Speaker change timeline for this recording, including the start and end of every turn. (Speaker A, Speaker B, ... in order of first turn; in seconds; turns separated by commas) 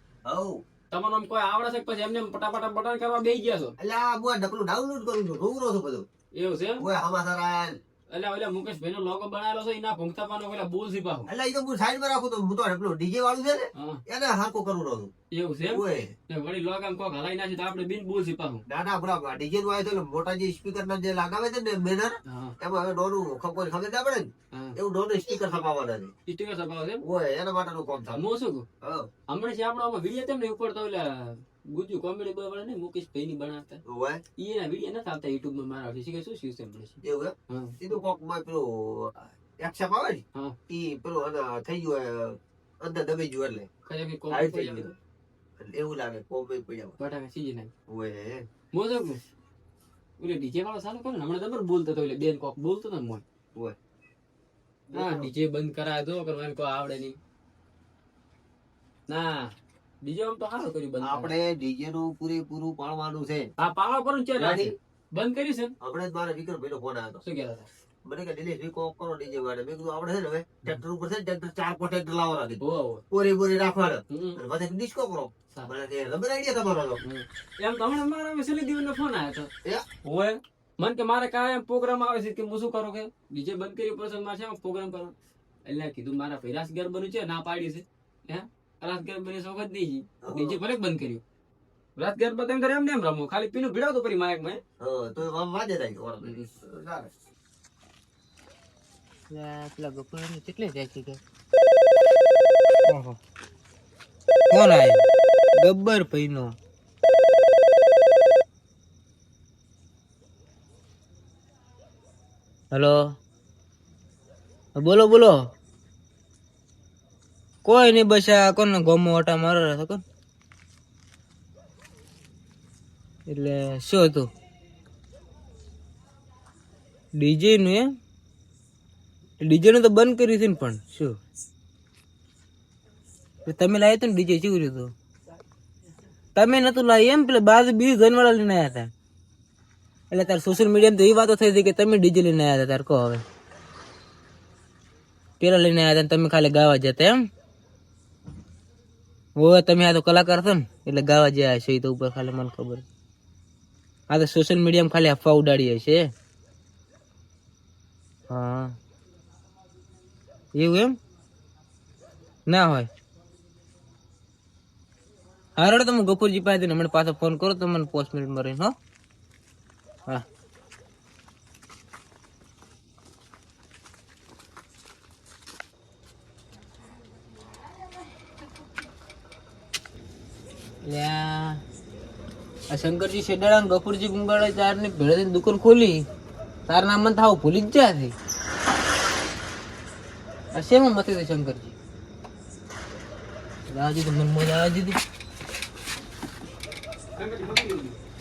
Speaker A: 0.2-0.6, Speaker B: 0.9-3.7, Speaker A: 3.8-6.0, Speaker B: 6.3-6.9, Speaker A: 6.8-7.8, Speaker B: 8.1-11.3, Speaker A: 11.3-15.1, Speaker B: 13.7-14.0, Speaker B: 15.3-18.6, Speaker A: 15.7-16.1, Speaker A: 18.6-26.1, Speaker B: 22.2-22.6, Speaker B: 26.2-27.0, Speaker A: 27.0-28.2, Speaker B: 28.1-28.6, Speaker A: 28.8-29.1, Speaker B: 29.3-33.8, Speaker A: 33.9-34.2, Speaker B: 34.4-37.8, Speaker A: 37.0-43.7, Speaker B: 43.9-44.9, Speaker A: 44.3-44.9, Speaker A: 45.6-47.0, Speaker B: 47.0-47.7, Speaker A: 47.9-48.5, Speaker B: 48.7-49.2, Speaker B: 50.2-53.2, Speaker A: 54.9-55.3, Speaker B: 54.9-57.2, Speaker B: 59.1-61.3, Speaker A: 61.0-63.5, Speaker B: 63.6-65.7, Speaker A: 64.4-64.7, Speaker A: 65.8-67.2, Speaker B: 67.2-67.7, Speaker A: 68.0-77.0, Speaker B: 72.6-73.0, Speaker B: 74.1-74.4, Speaker B: 77.0-79.5, Speaker B: 80.0-85.1, Speaker B: 85.7-91.2, Speaker A: 90.2-90.6, Speaker B: 92.0-94.6, Speaker A: 94.8-97.1, Speaker B: 96.2-96.5, Speaker C: 99.3-101.2, Speaker C: 102.9-103.2, Speaker C: 104.5-106.5, Speaker C: 112.7-113.2, Speaker C: 114.8-115.5, Speaker C: 117.6-120.0, Speaker C: 123.3-124.3, Speaker C: 127.1-127.9, Speaker C: 129.4-131.2, Speaker C: 133.4-134.9, Speaker C: 136.3-138.9, Speaker C: 140.1-143.2, Speaker C: 145.4-147.3, Speaker C: 149.3-152.8, Speaker C: 154.1-156.1, Speaker C: 158.3-158.8, Speaker C: 160.5-160.9, Speaker C: 162.5-162.9, Speaker C: 165.6-168.7, Speaker C: 180.8-181.6, Speaker C: 182.7-186.0, Speaker C: 186.7-188.1, Speaker C: 190.5-191.7, Speaker C: 193.7-195.0, Speaker B: 197.2-198.0